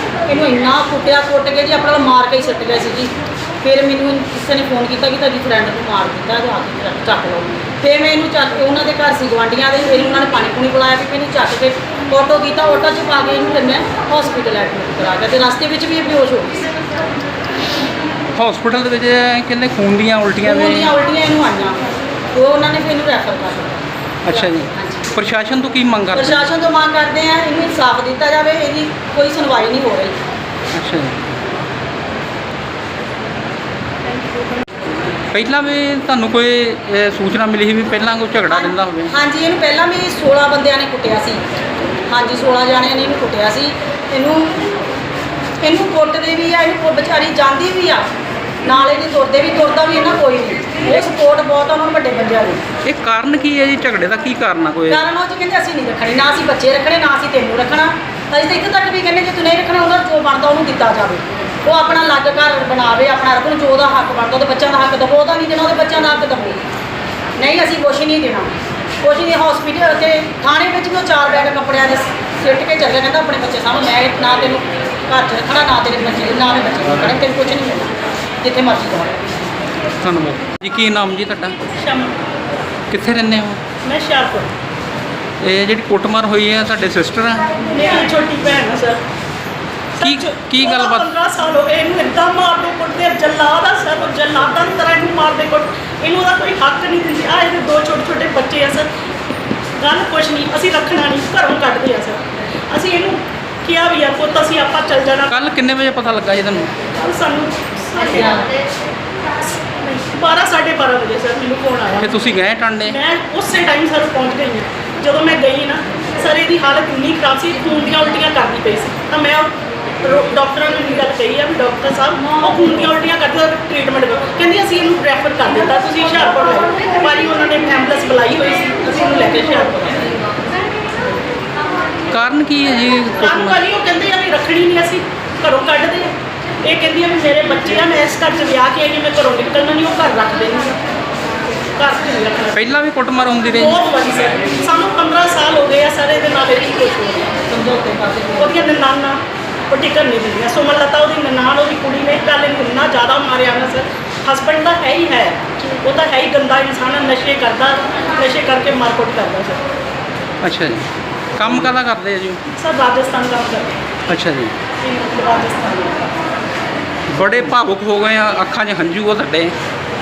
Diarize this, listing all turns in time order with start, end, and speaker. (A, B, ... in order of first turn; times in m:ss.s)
0:00.3-0:16.7 A
0:18.3-0:21.0 B
0:20.4-0:21.8 A
0:22.3-0:25.1 A
0:24.2-0:26.5 B
0:26.1-0:30.2 A
0:30.7-0:31.2 B
0:35.3-0:39.1 B
0:38.5-0:41.4 A
0:42.1-0:44.6 A
0:45.6-0:48.1 A
0:48.6-0:52.6 A
0:52.8-0:55.0 B
0:54.9-1:06.6 A
1:07.4-1:19.2 A
1:20.0-1:21.6 B
1:21.7-1:22.1 C
1:22.9-1:23.6 B
1:23.8-1:24.5 C
1:25.4-1:27.6 B
1:27.7-1:29.0 C
1:30.0-1:38.8 C
1:30.0-1:31.1 B
1:39.8-1:45.5 C
1:45.3-1:46.7 B
1:47.0-1:48.6 C
1:49.9-1:52.3 C
1:52.0-1:53.0 B
1:52.8-1:59.5 C
2:00.0-2:10.1 C
2:12.1-2:13.7 B
2:13.2-2:16.1 C
2:16.6-2:20.8 C
2:21.8-2:22.7 C
2:22.5-2:23.9 B
2:23.5-2:27.4 C
2:27.4-2:28.8 A
2:28.4-2:39.6 C
2:40.4-2:42.4 B
2:42.5-2:43.7 C
2:44.1-2:44.5 B
2:44.8-2:46.2 C
2:47.1-2:49.6 B